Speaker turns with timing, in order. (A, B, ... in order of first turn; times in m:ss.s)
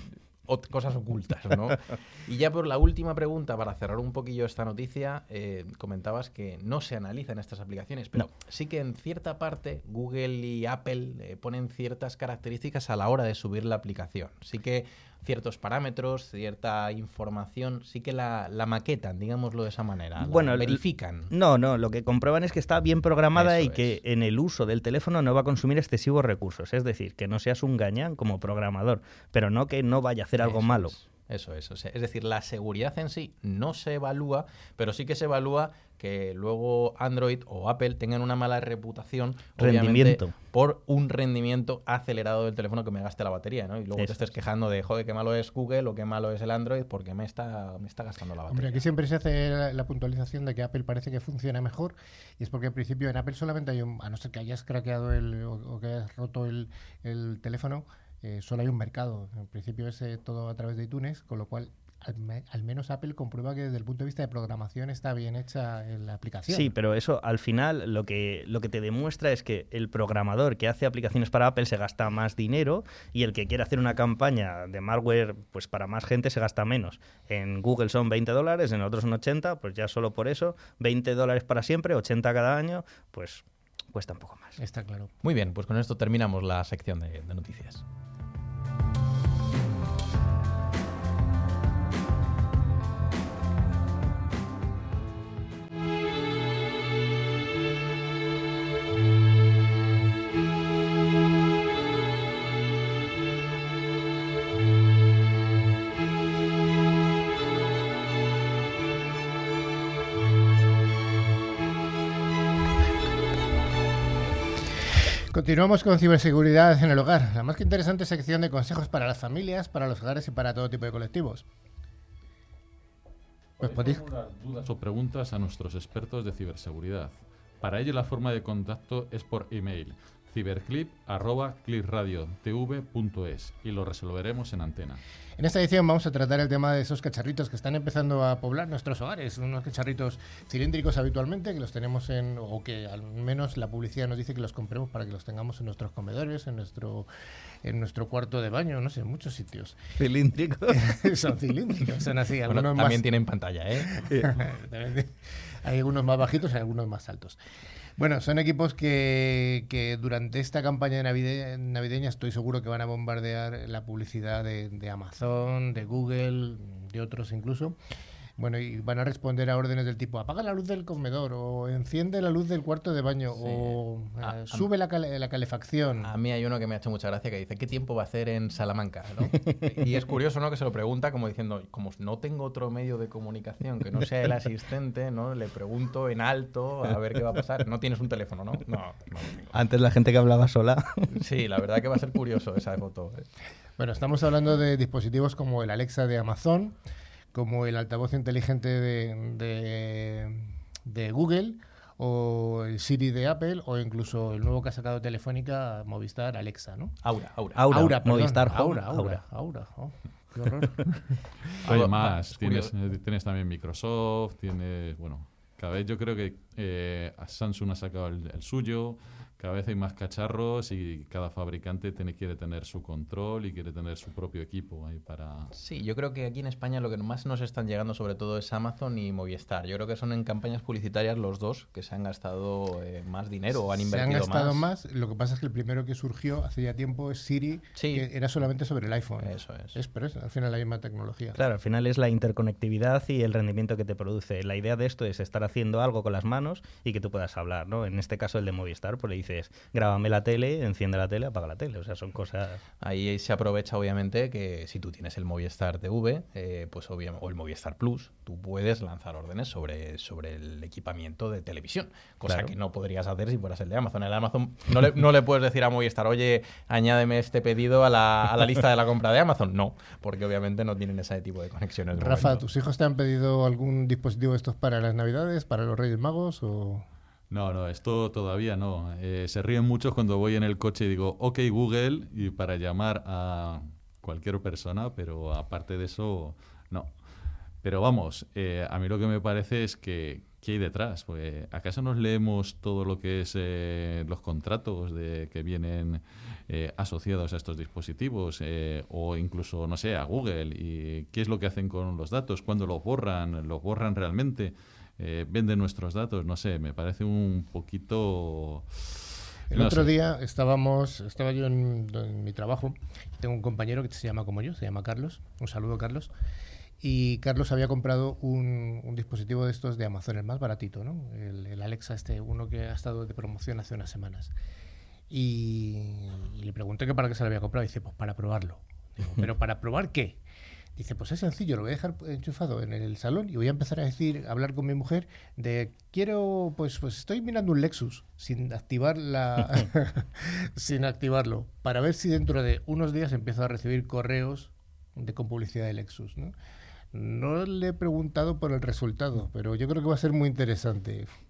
0:00.4-0:21.3 A
0:20.2-0:31.0 B
0:23.4-0:24.0 A
0:30.4-0:48.9 A
0:39.6-0:40.3 B
0:44.0-0:44.2 B
0:48.5-1:06.7 C
1:06.5-1:24.6 B
1:24.6-1:25.1 C
1:25.2-1:27.8 A
1:55.3-2:01.5 C
2:03.6-2:04.0 C
2:03.6-2:15.0 D
2:15.4-2:27.1 C
2:27.6-2:29.8 C
2:30.0-2:30.8 B
2:30.7-2:33.0 C
2:32.5-2:34.0 A
2:34.2-2:37.4 C
2:38.0-2:47.8 C
2:48.4-2:56.1 C
2:53.4-2:54.7 A
2:56.0-3:09.5 A
3:09.5-3:11.1 B
3:11.1-3:13.3 A
3:13.8-3:16.8 C
3:17.3-3:26.9 C
3:27.0-3:27.6 A
3:27.6-3:29.2 B
3:27.7-3:31.2 C
3:31.6-3:32.7 A
3:31.6-3:45.5 D
3:45.5-3:54.6 A
3:53.8-4:01.4 C
3:57.8-3:58.1 A
3:59.2-3:59.8 A
4:01.4-4:12.6 B
4:12.8-4:32.4 A
4:32.0-4:36.8 C
4:37.3-4:46.9 D
4:47.6-5:09.9 D
5:09.5-5:16.1 C
5:16.8-5:24.3 C
5:25.1-5:30.2 C
5:30.8-5:46.4 C
5:46.9-5:51.1 C